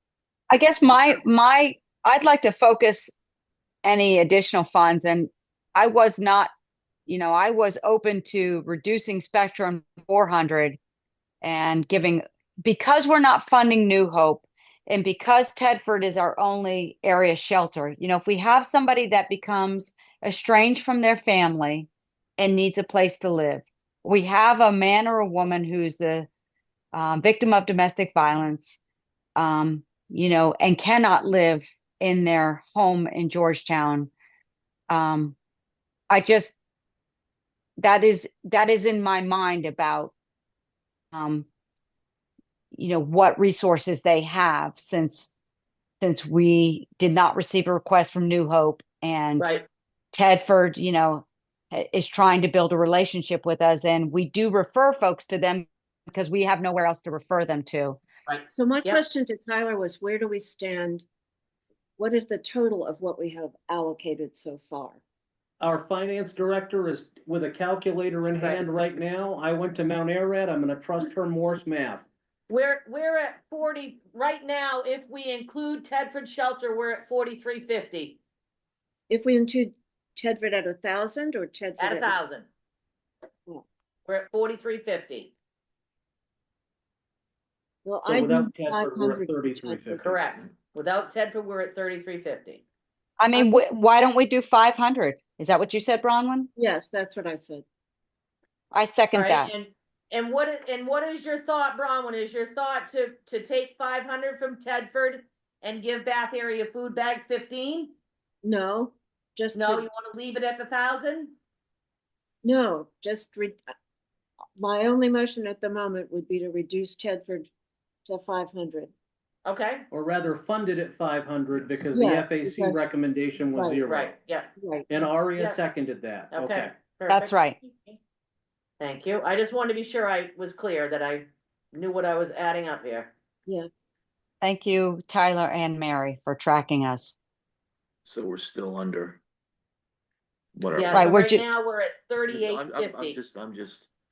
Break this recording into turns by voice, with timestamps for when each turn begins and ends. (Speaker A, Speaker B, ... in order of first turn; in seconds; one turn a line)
Speaker A: 0.5-3.1
Speaker A: 3.8-6.5
Speaker A: 7.1-10.8
Speaker A: 11.4-26.3
Speaker A: 26.9-28.8
Speaker A: 29.4-34.1
Speaker A: 34.9-35.4
Speaker A: 36.1-36.5
Speaker A: 37.8-40.1
Speaker A: 41.1-41.5
Speaker A: 42.7-45.3
Speaker A: 46.0-49.5
Speaker B: 49.4-49.6
Speaker A: 50.1-58.0
Speaker B: 58.3-59.0
Speaker C: 58.5-61.0
Speaker C: 62.0-65.0
Speaker D: 65.6-72.0
Speaker B: 72.5-78.2
Speaker C: 79.1-82.2
Speaker B: 81.8-82.5
Speaker B: 84.1-85.3
Speaker C: 87.8-90.1
Speaker D: 88.0-90.3
Speaker B: 90.0-92.6
Speaker A: 93.2-96.5
Speaker C: 96.5-97.6
Speaker A: 98.7-99.5
Speaker B: 99.1-107.9
Speaker C: 108.4-109.9
Speaker B: 109.5-111.3
Speaker C: 112.4-113.6
Speaker C: 114.6-117.5
Speaker C: 118.0-118.9
Speaker B: 119.4-119.8
Speaker D: 119.9-124.1
Speaker C: 121.9-122.9
Speaker C: 123.5-123.8
Speaker B: 123.8-124.5
Speaker C: 124.6-124.9
Speaker D: 124.9-126.7
Speaker B: 126.3-128.0
Speaker A: 127.1-127.6
Speaker B: 128.8-133.1
Speaker A: 134.4-137.2
Speaker E: 138.0-139.2
Speaker E: 140.5-141.1
Speaker B: 140.7-143.2
Speaker A: 140.9-141.4
Speaker E: 142.3-143.9